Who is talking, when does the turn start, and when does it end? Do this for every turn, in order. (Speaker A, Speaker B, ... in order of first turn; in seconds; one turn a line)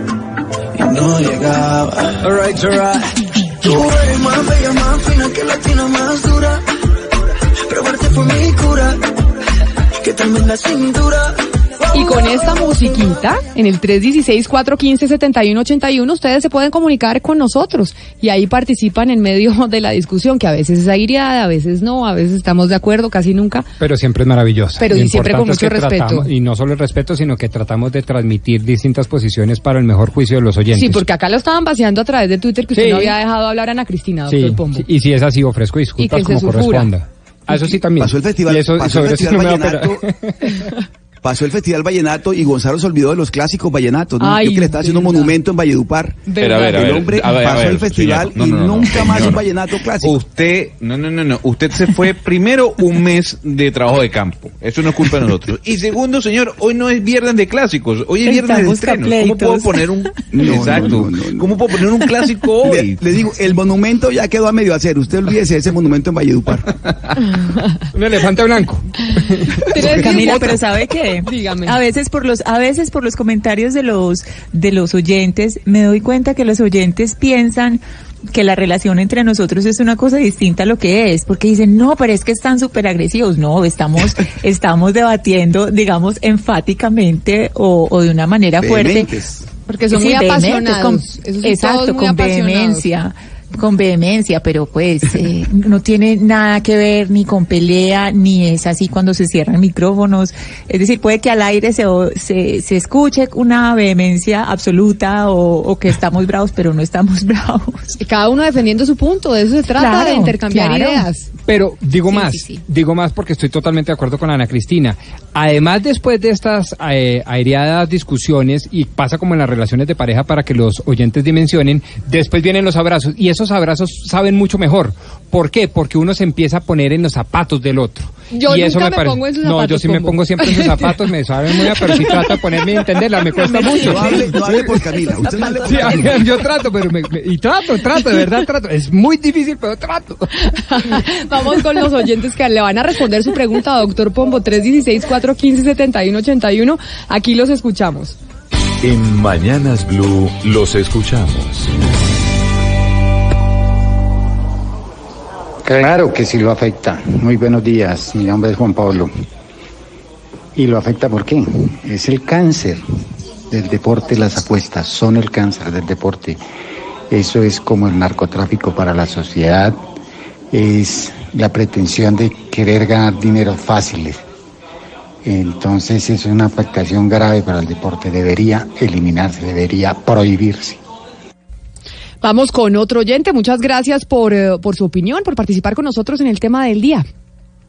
Speaker A: 0.8-6.6
Speaker A: 7.7-9.1
Speaker A: 10.0-11.4
Speaker A: 11.9-12.5
Speaker B: 11.9-23.7
Speaker C: 23.8-31.0
Speaker B: 24.8-26.3
Speaker B: 30.7-34.9
Speaker C: 32.8-33.1
Speaker C: 34.3-40.6
Speaker B: 36.0-36.9
Speaker B: 37.5-37.8
Speaker D: 38.0-40.0
Speaker D: 41.2-50.1
Speaker B: 44.2-45.3
Speaker B: 46.3-47.0
Speaker E: 46.4-49.5
Speaker E: 50.0-63.0
Speaker F: 58.3-60.2
Speaker D: 60.3-61.5
Speaker D: 62.6-66.7
Speaker C: 67.9-70.0
Speaker F: 69.7-89.2
Speaker B: 69.7-70.7
Speaker B: 71.2-71.8
Speaker D: 88.6-89.5
Speaker B: 89.7-92.9
Speaker F: 89.9-107.9
Speaker B: 108.0-111.3
Speaker F: 109.8-111.0
Speaker C: 111.5-134.8
Speaker F: 112.1-112.6
Speaker B: 128.3-131.0
Speaker B: 131.6-132.8
Speaker D: 133.4-136.3
Speaker B: 133.6-134.1
Speaker B: 135.4-136.1
Speaker C: 135.6-141.0
Speaker B: 140.5-148.2
Speaker G: 148.8-151.7
Speaker H: 155.6-159.1
Speaker H: 160.6-162.8
Speaker H: 163.5-166.4
Speaker H: 167.1-169.8
Speaker H: 170.5-174.2
Speaker H: 175.2-180.8
Speaker B: 182.2-187.1